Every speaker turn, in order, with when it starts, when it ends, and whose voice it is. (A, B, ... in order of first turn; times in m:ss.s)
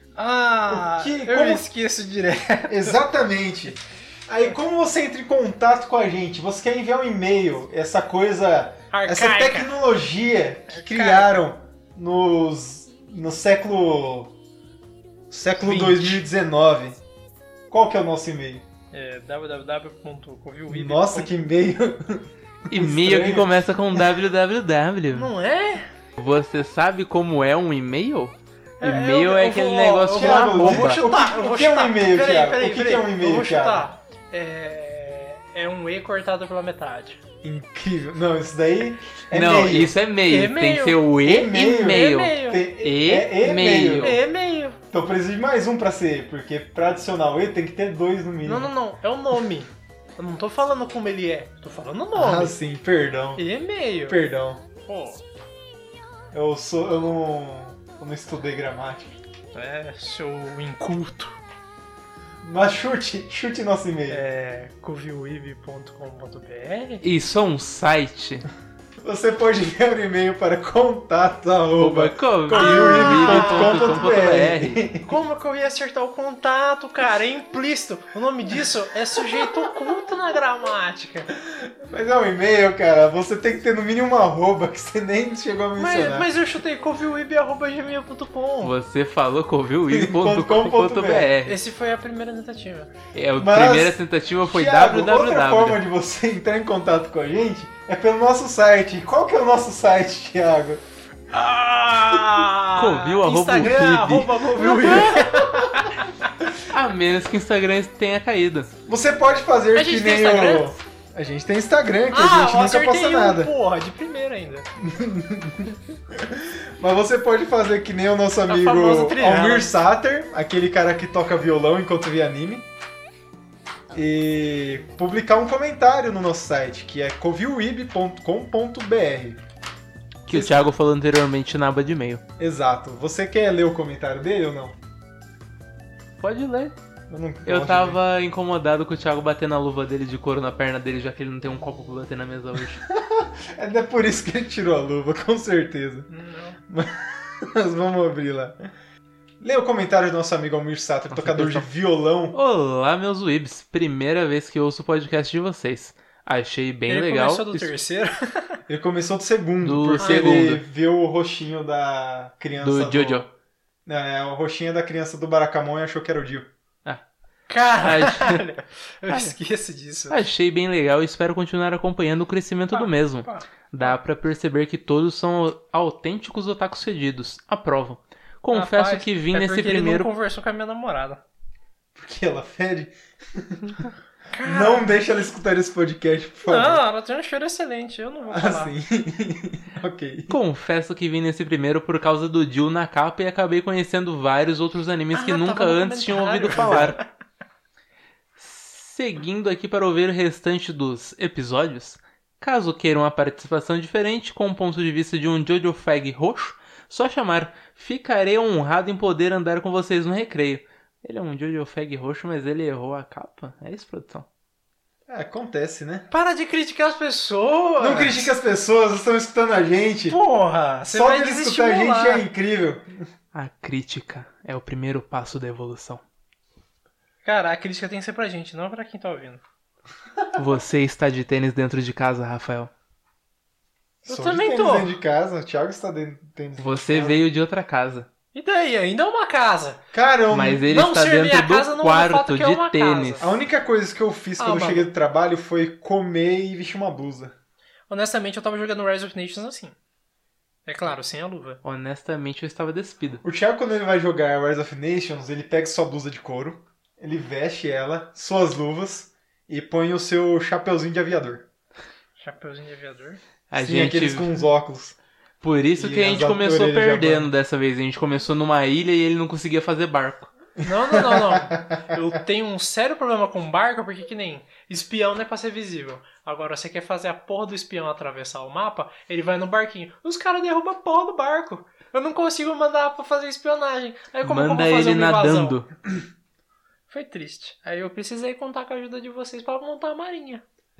0:00.2-0:03.0 A
0:00.7-0:01.7 B
0:02.7-0:14.4 B
0:08.9-0:09.8 A
0:10.7-0:11.4 A
0:15.3-0:17.0 B
0:15.6-0:16.2 A
0:17.7-0:18.7 B
0:18.9-0:21.3 A
0:20.7-0:24.0 B
0:22.7-0:25.3 C
0:25.1-0:25.9 A
0:26.2-0:31.0 C
0:28.8-0:37.2 A
0:30.1-0:33.9 B
0:37.4-0:40.0 B
0:39.3-0:44.2 C
0:40.3-0:41.0 A
0:41.2-0:44.2 B
0:41.8-0:42.6 A
0:44.0-0:44.8 A
0:44.9-0:48.7 B
0:48.4-0:52.6 A
0:52.2-0:53.4 B
0:53.4-0:54.2 A
0:54.1-0:54.6 B
0:54.8-0:55.2 A
0:56.3-0:59.2 B
0:59.5-1:01.4 A
1:02.4-1:04.2 B
1:04.1-1:07.0 A
1:07.0-1:08.5 C
1:09.0-1:15.2 B
1:11.8-1:14.8 C
1:12.5-1:14.2 A
1:15.0-1:21.3 A
1:21.5-1:26.3 B
1:25.8-1:28.7 A
1:28.6-1:31.6 C
1:29.9-1:31.3 B
1:31.4-1:32.9 A
1:33.1-1:35.8 C
1:33.4-1:40.8 B
1:41.3-1:46.2 A
1:42.8-1:45.3 C
1:44.8-1:45.7 B
1:46.7-1:48.7 C
1:48.9-1:53.5 B
1:49.8-1:50.8 A
1:52.1-1:54.7 A
1:54.8-2:02.7 B
1:58.5-1:59.7 A
2:03.9-2:09.4 B
2:10.3-2:12.2 C
2:10.3-2:10.6 B
2:12.4-2:14.8 B
2:16.2-2:16.7 C
2:17.1-2:18.0 B
2:17.5-2:22.8 C
2:22.9-2:26.1 B
2:26.1-2:26.6 A
2:26.7-2:28.7 B
2:29.4-2:32.4 B
2:31.1-2:31.7 C
2:32.3-2:37.7 C
2:36.9-2:38.6 A
2:38.7-2:43.3 B
2:39.6-2:40.6 C
2:40.0-2:40.3 A
2:42.6-2:43.3 C
2:43.9-2:46.5 B
2:47.5-2:50.2 A
2:47.8-2:48.4 C
2:49.1-2:49.4 C
2:50.1-3:00.1 C
2:52.7-2:54.0 A
2:58.5-3:01.2 A
3:02.0-3:03.8 B
3:04.3-3:05.0 A
3:04.4-3:06.8 B
3:06.5-3:08.7 A
3:08.3-3:10.4 B
3:10.3-3:17.0 C
3:15.1-3:17.1 A
3:18.4-3:34.3 C
3:35.1-3:36.1 B
3:36.1-3:38.3 A
3:37.8-3:40.2 B
3:40.1-3:42.3 A
3:40.9-3:43.1 B
3:43.3-3:46.0 C
3:47.2-3:49.4 A
3:50.4-3:52.7 C
3:54.0-3:57.2 B
3:54.1-3:55.0 A
3:56.6-3:58.1 C
3:58.3-3:59.8 A
3:59.9-4:00.7 B
4:00.3-4:03.3 C
4:00.6-4:03.3 A
4:03.2-4:07.4 B
4:04.4-4:04.9 A
4:07.9-4:09.8 A
4:10.7-4:11.6 A
4:11.6-4:13.2 C
4:13.2-4:21.5 B
4:22.2-4:23.2 A
4:23.5-4:24.3 C
4:23.6-4:25.0 B
4:25.4-4:30.3 C
4:25.8-4:27.3 B
4:30.6-4:45.6 A
4:30.9-4:32.0 B
4:44.2-4:45.7 C
4:46.9-4:50.4 A